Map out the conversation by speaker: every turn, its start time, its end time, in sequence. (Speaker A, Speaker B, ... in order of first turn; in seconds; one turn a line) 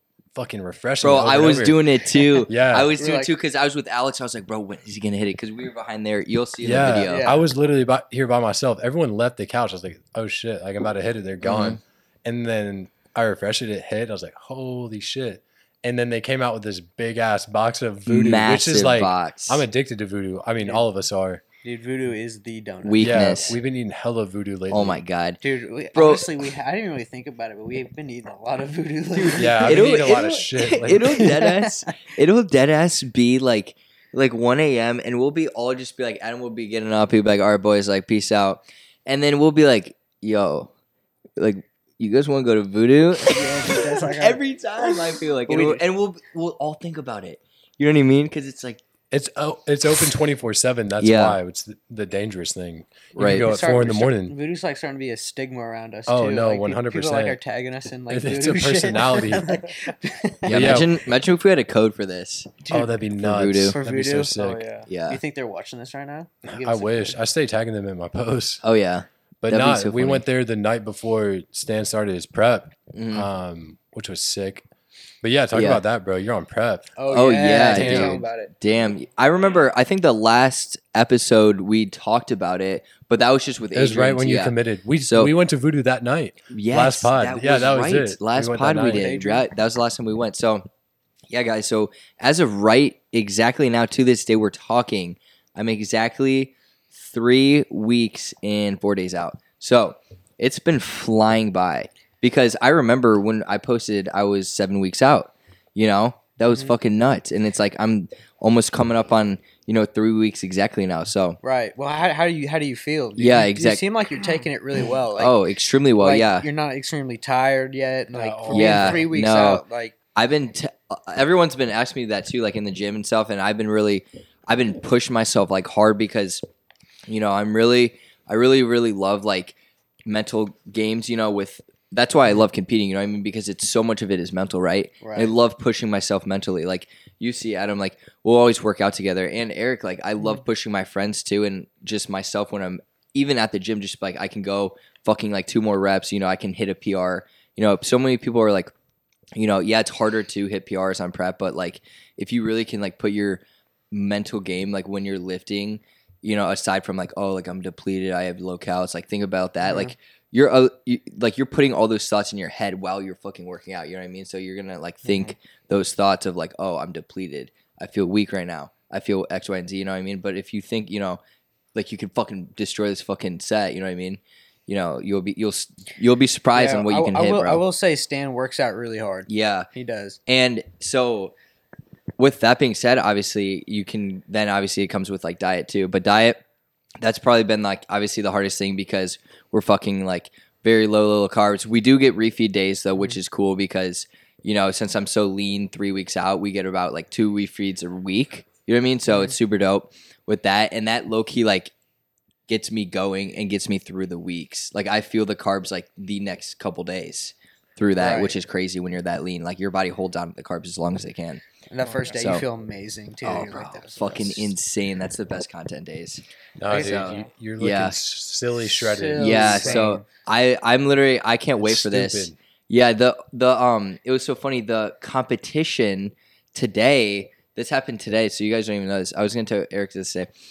Speaker A: 0.3-1.9
Speaker B: 1.0-7.2
Speaker A: 2.4-2.9
Speaker C: 3.0-3.3
Speaker A: 6.6-21.4
Speaker C: 7.0-7.5
Speaker B: 11.4-11.8
Speaker B: 18.1-19.6
Speaker C: 20.6-20.8
Speaker C: 21.6-23.6
Speaker B: 22.8-23.6
Speaker A: 23.0-25.0
Speaker B: 24.7-25.4
Speaker C: 25.4-30.2
Speaker B: 25.9-26.4
Speaker B: 29.1-40.7
Speaker A: 29.4-31.2
Speaker C: 30.9-31.8
Speaker B: 41.4-48.8
Speaker C: 43.1-45.8
Speaker A: 49.1-54.4
Speaker B: 51.0-51.4
Speaker B: 53.1-53.5
Speaker C: 53.2-60.9
Speaker A: 56.1-57.4
Speaker A: 58.1-59.5
Speaker A: 60.5-60.9
Speaker B: 60.5-62.6
Speaker C: 62.6-63.0
Speaker A: 62.7-64.7
Speaker B: 63.2-63.8
Speaker C: 63.6-64.3
Speaker D: 64.3-64.9
Speaker B: 64.9-65.2
Speaker C: 65.1-67.2
Speaker A: 66.4-68.6
Speaker B: 68.6-70.2
Speaker A: 69.4-74.6
Speaker B: 72.9-73.3
Speaker A: 75.2-76.9
Speaker B: 75.5-75.8
Speaker C: 77.0-78.5
Speaker B: 77.1-84.5
Speaker A: 77.6-78.2
Speaker A: 83.7-89.1
Speaker B: 85.1-85.3
Speaker B: 86.5-90.7
Speaker C: 88.8-89.5
Speaker B: 91.3-111.4
Speaker C: 106.5-106.8
Speaker C: 111.4-115.4
Speaker B: 113.2-113.8
Speaker B: 115.2-116.5
Speaker C: 116.0-120.0
Speaker D: 118.1-119.1
Speaker B: 118.5-119.6
Speaker B: 120.1-126.4
Speaker B: 127.1-148.7
Speaker C: 135.0-135.3
Speaker B: 149.3-171.2
Speaker C: 159.6-159.9
Speaker C: 165.1-165.3
Speaker B: 171.8-177.6
Speaker C: 176.5-180.2
Speaker B: 179.3-179.7
Speaker B: 180.3-181.3
Speaker B: 182.2-186.4
Speaker B: 187.0-201.7
Speaker C: 199.1-199.3
Speaker B: 202.5-211.4
Speaker C: 208.0-208.3
Speaker C: 211.7-214.5
Speaker D: 211.8-212.2
Speaker B: 212.1-212.4
Speaker B: 213.2-216.2
Speaker A: 216.6-219.8
Speaker C: 216.7-217.2
Speaker B: 216.8-218.0
Speaker C: 218.6-220.0
Speaker B: 219.2-230.3
Speaker D: 219.6-219.9
Speaker A: 221.6-222.3